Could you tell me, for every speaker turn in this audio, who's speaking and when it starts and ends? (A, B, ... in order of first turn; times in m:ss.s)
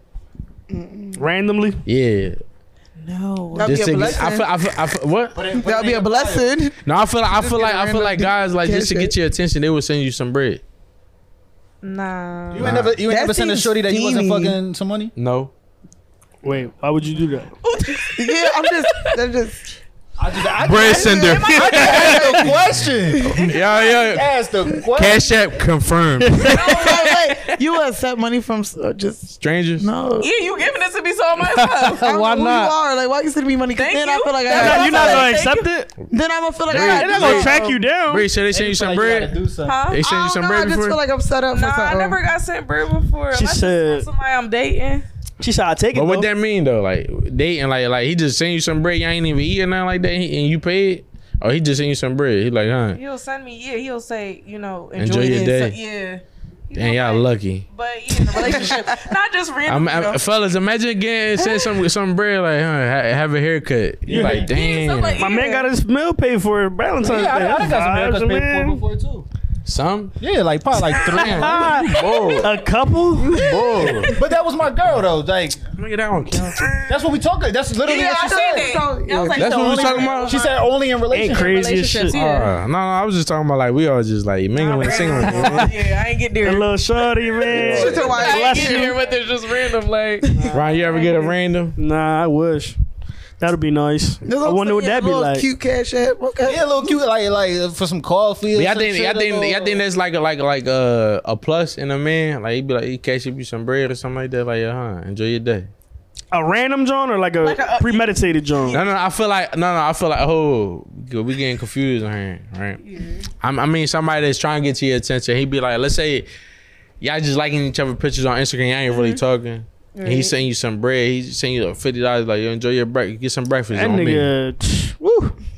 0:00.7-0:01.2 A
0:01.2-0:01.8 B
0:01.9-0:02.4 C
0:03.0-0:04.2 D
0:03.5-0:04.5 A
0:03.6-0:05.4 C
0:05.3-0:06.5 E
0:05.5-0:06.8 A
0:06.8-0:10.6 C
0:07.3-0:09.1 A
0:11.8-0:12.8 D
0:12.5-0:15.1 E
0:12.6-0:13.0 C
0:13.1-0:14.6 A
0:15.2-0:15.5 C
0:16.4-0:17.5 B
0:17.6-0:19.2 D
0:18.1-0:19.6 A
0:20.2-0:25.3 E
0:20.6-0:22.6 C
0:20.9-0:22.5 D
0:21.4-0:22.5 A
0:23.2-0:23.4 A
0:23.4-0:24.3 C
0:25.0-0:26.6 C
0:26.5-0:27.6 D
0:26.5-0:30.3 A
0:29.4-0:29.9 C
0:30.2-0:32.2 D
0:31.9-0:32.2 B
0:32.0-0:35.4 A
0:33.7-0:35.7 D
0:34.5-0:35.9 B
0:36.1-0:37.8 A
0:36.7-0:39.4 C
0:36.7-0:38.2 B
0:38.5-0:39.8 E
0:39.6-0:40.1 D
0:39.9-0:41.0 C
0:40.0-0:42.2 A
0:41.5-0:45.0 D
0:43.3-0:44.1 B
0:45.4-0:46.3 B
0:45.9-0:53.0 C
0:53.0-1:00.2 D
0:55.0-0:55.8 C
0:56.8-0:57.7 C
0:58.4-0:58.8 A
0:59.7-1:05.2 C
1:01.4-1:01.8 D
1:04.1-1:04.4 B
1:04.1-1:04.5 E
1:04.2-1:05.7 D
1:05.2-1:08.8 B
1:07.0-1:09.3 E
1:09.6-1:10.2 C
1:10.2-1:11.9 E
1:11.0-1:12.5 C
1:11.1-1:12.4 D
1:11.3-1:13.4 B
1:13.2-1:14.2 D
1:13.3-1:14.1 C
1:14.0-1:15.6 E
1:15.8-1:16.7 C
1:16.9-1:18.8 E
1:17.8-1:20.6 D
1:17.9-1:20.1 A
1:19.4-1:20.4 C
1:20.2-1:21.7 E
1:21.1-1:22.2 B
1:21.2-1:22.5 D
1:22.1-1:25.7 C
1:24.6-1:31.3 D
1:25.2-1:25.7 B
1:26.4-1:29.0 B
1:27.5-1:29.0 A
1:30.5-1:31.8 C
1:31.8-1:32.8 B
1:33.4-1:35.5 B
1:34.2-1:36.6 A
1:36.5-1:39.8 E
1:38.5-1:45.7 C
1:46.3-1:48.8 B
1:47.4-1:48.9 D
1:48.7-1:52.8 C
1:52.8-1:53.3 D
1:53.4-1:56.3 C
1:57.0-2:04.3 C
1:58.9-1:59.2 D
2:00.0-2:00.3 D
2:03.7-2:05.4 B